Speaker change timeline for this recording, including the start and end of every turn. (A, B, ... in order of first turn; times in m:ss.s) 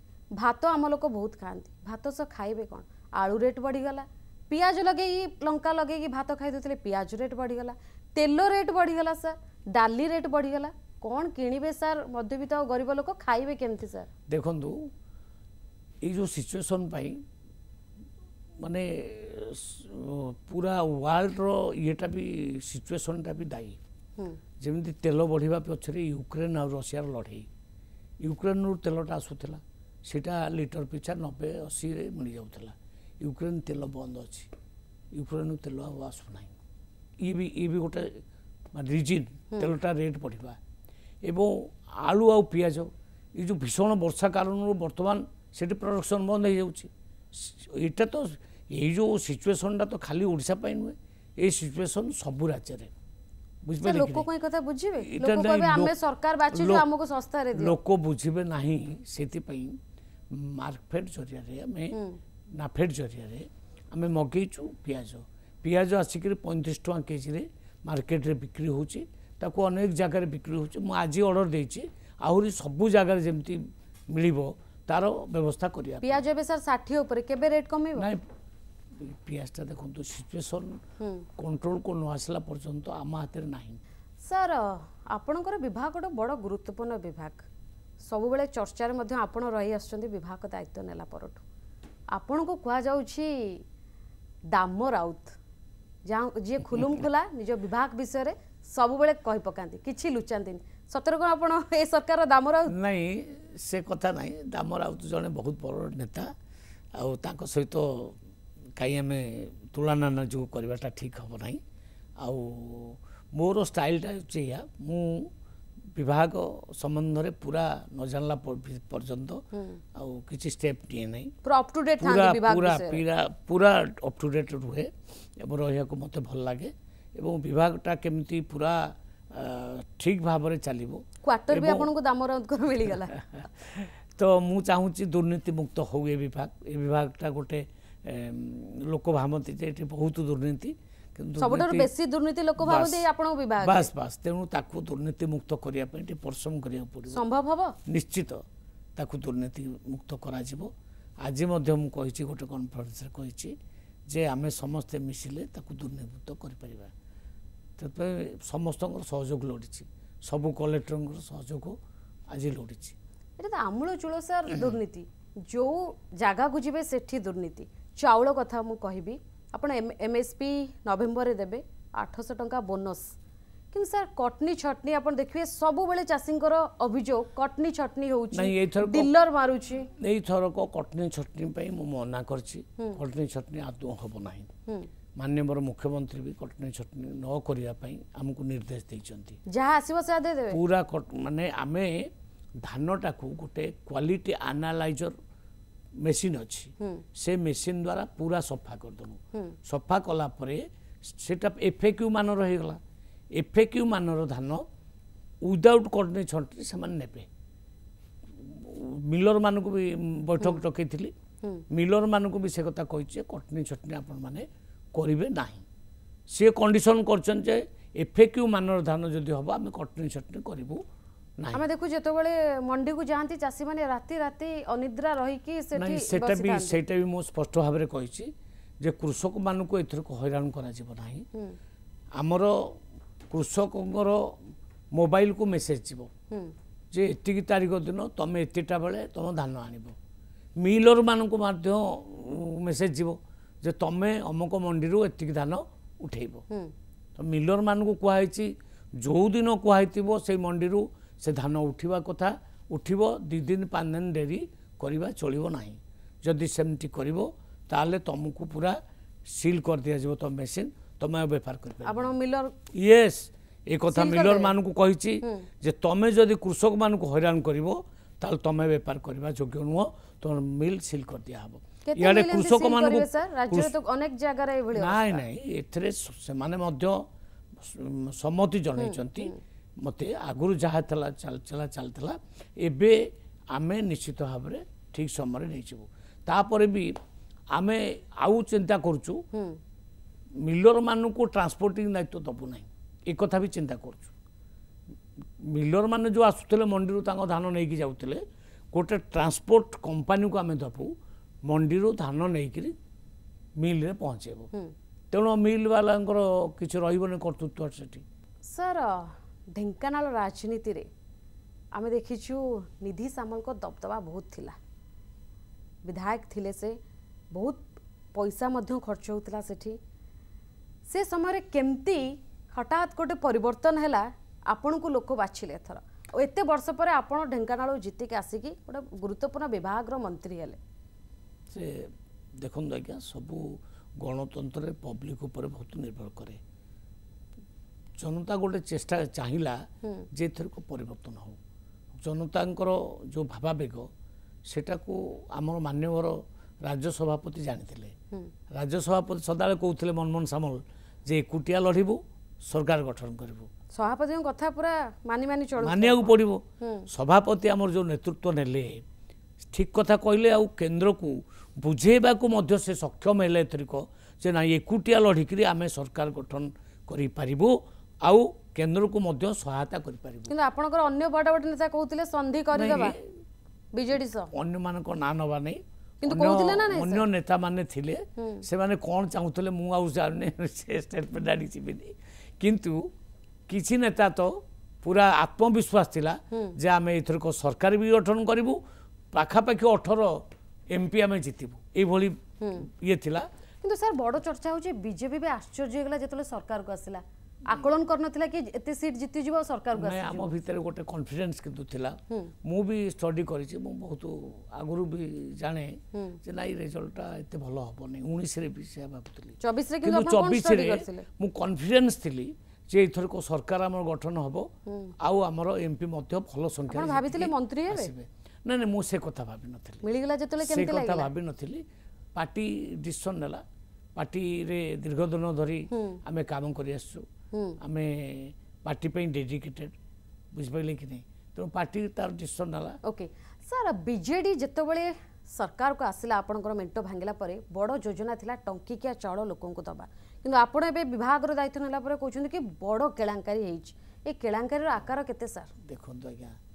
0:00.4-0:14.1 A
0:14.3-0:14.8 B
0:16.0-0:17.2 B
0:18.6-0:23.8 B
0:24.6-0:27.5 B
0:28.2-0:34.5 B
0:35.1-0:36.6 B
0:37.2-0:38.2 B
0:38.7-0:40.6 B
0:41.2-0:52.9 B
0:53.6-0:54.3 B
0:53.8-0:57.8 A
0:55.0-0:55.9 B
0:56.5-0:56.9 B
0:57.6-0:59.8 B
1:00.3-1:02.0 B
1:01.9-1:02.2 A
1:02.6-1:16.2 B
1:16.0-1:18.1 A
1:19.0-1:20.8 B
1:21.0-1:21.3 A
1:21.4-1:23.8 B
1:24.2-1:27.4 A
1:28.0-1:31.4 A
1:32.1-1:33.6 A
1:34.5-1:35.3 A
1:36.1-1:42.7 A
1:42.7-1:46.3 B
1:47.0-1:48.2 B
1:48.8-1:51.6 B
1:52.2-1:55.3 B
1:56.0-1:59.4 B
2:00.0-2:01.3 B
2:01.4-2:03.0 A
2:02.0-2:11.9 B
2:11.2-2:13.3 A
2:13.4-2:21.9 B
2:21.4-2:23.9 A
2:22.6-2:23.0 B
2:23.6-2:27.2 B
2:27.1-2:27.8 A
2:27.9-2:28.4 B
2:29.0-2:30.7 B
2:31.2-2:33.5 B
2:34.1-2:36.9 B
2:37.8-2:41.8 B
2:42.3-2:43.0 B
2:43.4-2:53.1 A
2:53.7-2:59.9 A
2:58.3-2:59.1 B
2:59.9-3:04.5 B
3:05.2-3:09.4 B
3:09.5-3:10.6 A
3:10.5-3:12.1 B
3:12.6-3:15.2 B
3:16.0-3:22.8 B
3:23.4-3:24.6 B
3:25.4-3:27.3 B
3:28.4-3:31.1 B
3:31.7-3:35.6 B
3:36.3-3:40.8 B
3:41.5-3:46.8 A
3:45.8-3:51.3 B
3:52.2-3:54.4 B
3:54.9-3:56.1 B
3:56.9-4:00.0 B
4:00.6-4:06.4 B
4:07.2-4:22.1 B
4:21.8-4:22.5 A
4:22.7-4:33.7 B
4:23.9-4:24.6 A
4:31.8-4:35.2 A
4:34.8-4:37.0 B
4:37.6-4:46.9 B
4:38.8-4:39.4 A
4:47.5-4:49.2 B
4:49.3-4:49.6 A
4:50.4-4:54.1 B
4:55.4-5:00.9 B
5:01.5-5:02.7 B
5:03.6-5:04.5 B
5:05.1-5:08.0 B
5:08.5-5:10.9 A
5:11.8-5:14.6 A
5:15.8-5:16.8 A
5:17.3-5:19.8 A
5:20.9-5:30.6 A
5:31.5-5:36.4 B
5:38.0-5:39.6 B
5:40.1-5:41.4 B
5:42.0-5:43.9 B
5:44.5-5:47.9 B
5:48.5-5:53.5 B
5:53.8-5:56.9 A
5:55.6-5:58.8 B
5:59.4-6:10.3 B
6:10.3-6:13.0 A
6:12.5-6:13.0 B
6:13.7-6:14.3 A
6:14.3-6:22.8 B
6:16.0-6:17.0 A
6:18.2-6:18.4 A
6:23.5-6:28.6 B
6:29.1-6:33.3 B
6:32.4-6:32.7 A
6:33.6-6:40.3 A
6:39.8-6:54.5 B
6:49.4-6:51.1 A
6:54.7-6:54.9 A
6:55.0-6:59.8 B
6:56.7-6:57.9 A
6:59.8-7:01.1 A
7:00.4-7:01.6 B
7:02.2-7:03.4 B
7:04.0-7:07.1 B
7:05.7-7:06.0 A
7:07.3-7:07.6 A
7:07.6-7:09.8 B
7:10.3-7:12.8 B
7:12.8-7:25.5 A
7:25.6-7:26.4 B